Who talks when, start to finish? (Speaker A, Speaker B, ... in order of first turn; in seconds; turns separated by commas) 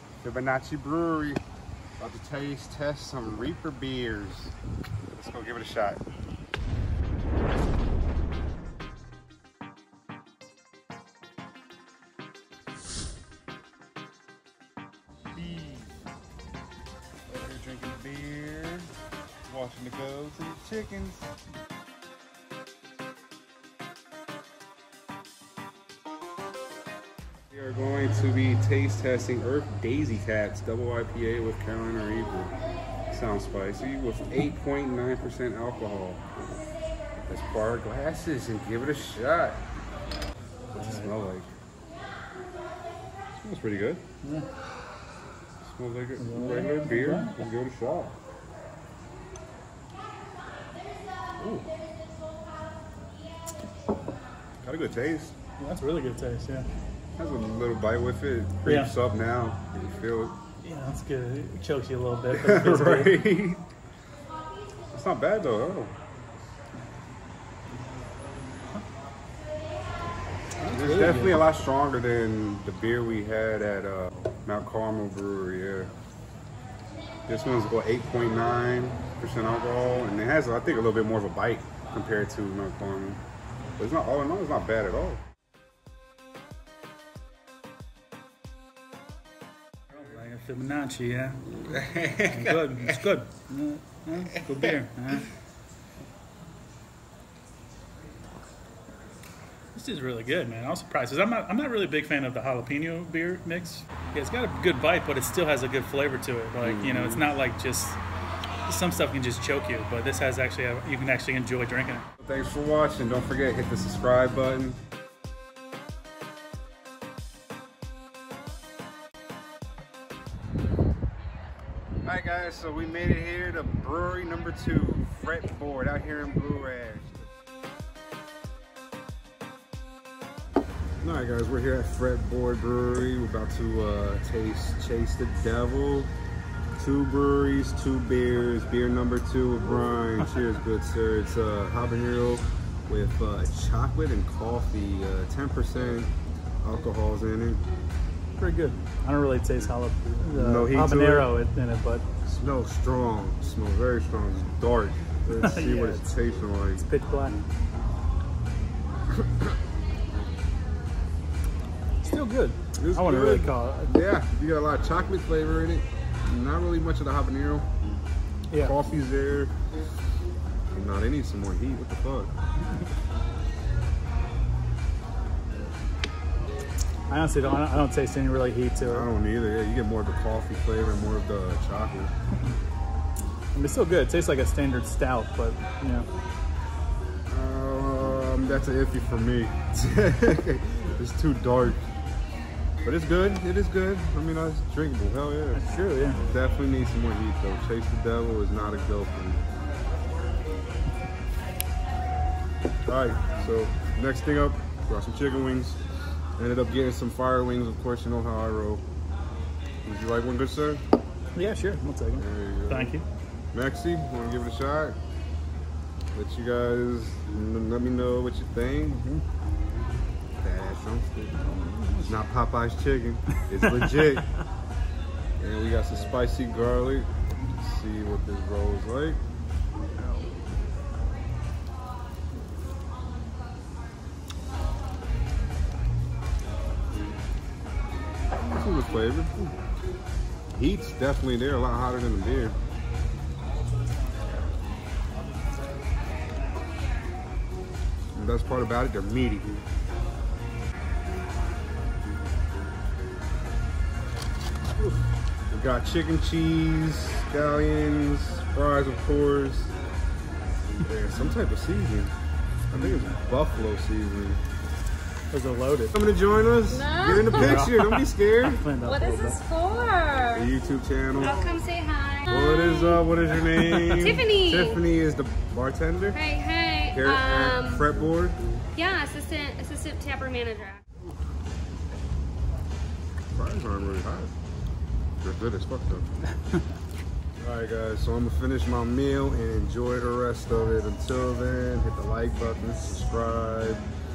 Speaker A: 0.2-1.4, Speaker A: 2.0-4.5, Speaker A: 5.1-6.0, Speaker A: 15.3-16.0, Speaker A: 17.3-18.9, Speaker A: 19.5-21.3, Speaker A: 27.5-32.5, Speaker A: 33.1-36.3, Speaker A: 37.2-39.6, Speaker B: 40.7-41.1, Speaker A: 40.8-41.5, Speaker A: 43.4-44.0, Speaker B: 44.2-44.5, Speaker A: 45.6-48.2, Speaker B: 46.2-47.5, Speaker A: 54.6-55.4, Speaker B: 55.6-56.7, Speaker A: 57.2-60.4, Speaker B: 58.6-58.9, Speaker B: 60.6-63.2, Speaker A: 62.3-63.6, Speaker A: 64.9-65.9, Speaker B: 70.6-71.4, Speaker A: 70.7-75.9, Speaker A: 77.3-83.2, Speaker A: 83.8-85.2, Speaker B: 89.9-91.7, Speaker A: 91.5-93.0, Speaker B: 92.3-95.3, Speaker B: 99.8-108.0, Speaker A: 106.6-107.2, Speaker B: 108.7-112.1, Speaker A: 112.2-114.8, Speaker A: 122.0-127.3, Speaker A: 131.0-136.1, Speaker A: 136.8-147.6, Speaker B: 148.4-152.1, Speaker A: 150.4-151.3, Speaker A: 152.2-156.8, Speaker B: 155.3-156.1, Speaker B: 156.8-157.4, Speaker A: 159.2-159.5, Speaker B: 162.0-163.9, Speaker A: 162.8-167.7, Speaker B: 168.5-168.8, Speaker A: 168.6-169.6, Speaker A: 170.7-172.3, Speaker B: 177.1-179.1, Speaker A: 178.8-182.1, Speaker B: 183.6-186.1, Speaker A: 187.3-191.8, Speaker A: 192.8-199.4, Speaker B: 195.5-196.2, Speaker A: 202.9-205.8, Speaker A: 206.4-208.8, Speaker A: 209.8-210.8, Speaker B: 211.3-213.1, Speaker A: 212.1-213.0, Speaker A: 213.5-215.0, Speaker A: 216.1-219.2, Speaker A: 220.4-224.4, Speaker B: 221.4-222.1, Speaker B: 223.6-224.2, Speaker A: 225.4-229.2, Speaker A: 230.0-230.3, Speaker A: 238.3-239.6, Speaker A: 240.5-242.6, Speaker A: 248.1-249.5, Speaker A: 255.5-259.8, Speaker A: 260.8-262.1, Speaker A: 262.7-264.4, Speaker B: 265.3-266.0, Speaker A: 265.9-268.7, Speaker C: 266.7-267.6, Speaker B: 267.3-269.4, Speaker C: 268.8-270.5, Speaker A: 270.3-271.4, Speaker C: 271.2-273.1, Speaker A: 272.3-276.2, Speaker B: 273.3-274.1, Speaker C: 273.9-274.8, Speaker C: 276.1-277.9, Speaker A: 276.9-278.4, Speaker C: 278.8-280.8, Speaker A: 283.3-284.3, Speaker A: 285.2-286.1, Speaker A: 287.4-293.9